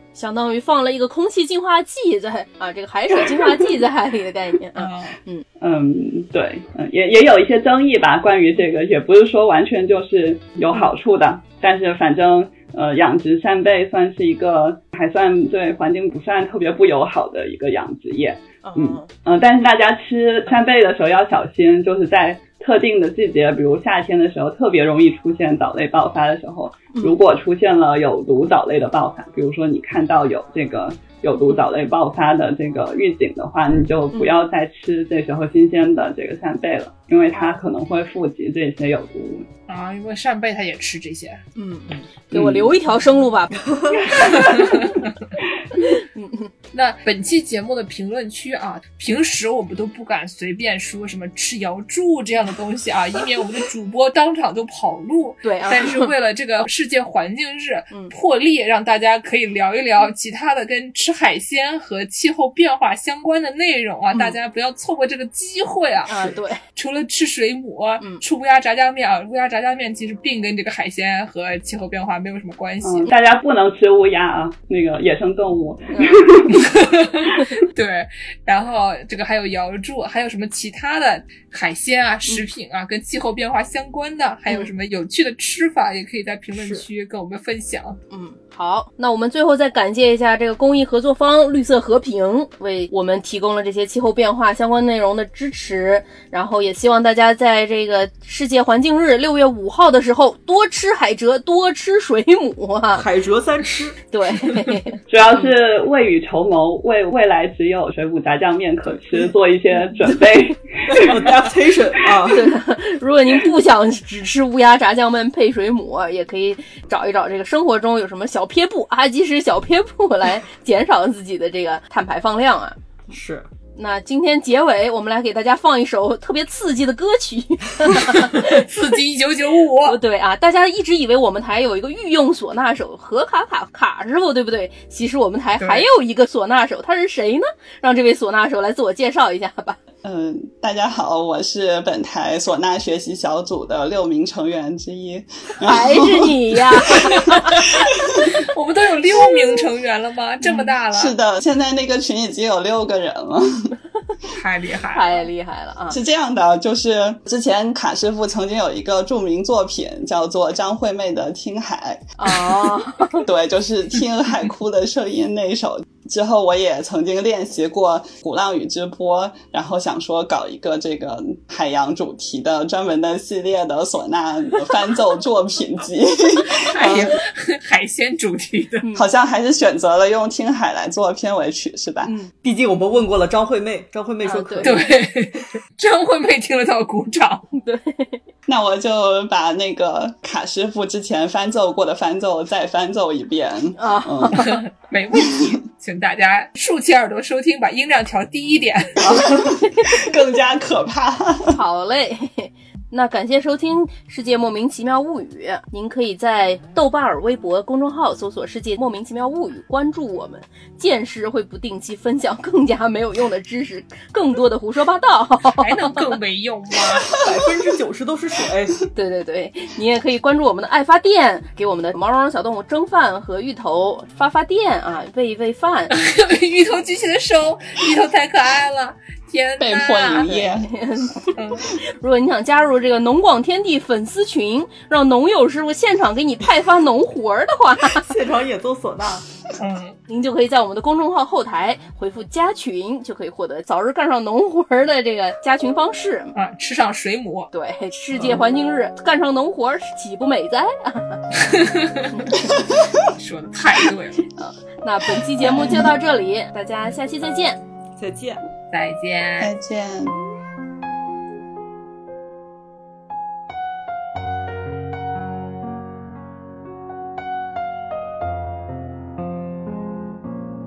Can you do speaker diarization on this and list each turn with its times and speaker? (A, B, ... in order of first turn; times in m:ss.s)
0:00.1-0:05.4 A
0:04.8-0:05.2 B
0:05.6-0:39.5 C
0:18.6-0:19.1 A
0:26.9-0:27.2 A
0:37.3-0:37.6 A
0:39.7-0:41.4 B
0:41.6-0:45.0 A
0:42.3-0:42.7 C
0:43.6-0:44.7 D
0:44.2-0:45.1 B
0:45.8-0:46.5 A
0:46.7-1:06.2 B
0:55.4-0:56.1 A
1:04.1-1:04.4 A
1:06.1-1:06.6 A
1:06.7-1:13.1 B
1:12.8-1:16.7 C
1:15.9-1:16.3 A
1:16.5-1:28.0 B
1:26.5-1:26.8 A
1:28.1-1:43.0 A
1:42.9-1:44.0 D
1:44.1-1:45.0 A
1:45.1-1:51.3 C
1:50.9-1:52.6 D
1:52.3-2:02.8 A
2:03.1-2:03.5 D
2:03.8-2:08.7 A
2:08.0-2:10.0 B
2:09.8-2:19.8 A
2:15.6-2:15.9 B
2:20.0-2:28.3 C
2:25.6-2:27.7 A
2:27.1-2:31.1 B
2:30.9-2:33.7 C
2:34.3-2:35.3 B
2:34.9-2:36.0 A
2:35.9-2:57.2 C
2:42.2-2:43.2 A
2:56.7-2:58.8 B
2:56.8-2:57.2 D
2:58.8-2:59.1 A
2:58.9-3:02.1 C
3:02.0-3:02.3 A
3:02.4-3:04.9 D
3:04.2-3:04.8 A
3:04.6-3:07.4 B
3:07.5-3:08.2 A
3:08.5-3:14.4 C
3:13.8-3:14.6 A
3:14.3-3:19.0 B
3:19.0-3:21.6 C
3:19.1-3:19.5 D
3:21.5-3:36.2 A
3:35.6-3:37.2 B
3:37.1-3:38.8 D
3:38.9-3:45.9 A
3:45.9-3:50.2 B
3:49.6-3:50.7 C
3:50.2-3:58.1 A
3:51.3-3:51.7 B
3:57.9-3:59.2 D
3:59.6-4:00.0 B
4:00.1-4:06.3 A
4:06.3-4:07.5 B
4:07.5-4:12.5 A
4:11.4-4:12.2 B
4:13.0-4:14.2 B
4:14.4-4:17.6 A
4:15.6-4:15.8 C
4:18.0-4:18.4 D
4:18.7-4:19.5 B
4:19.4-4:20.2 C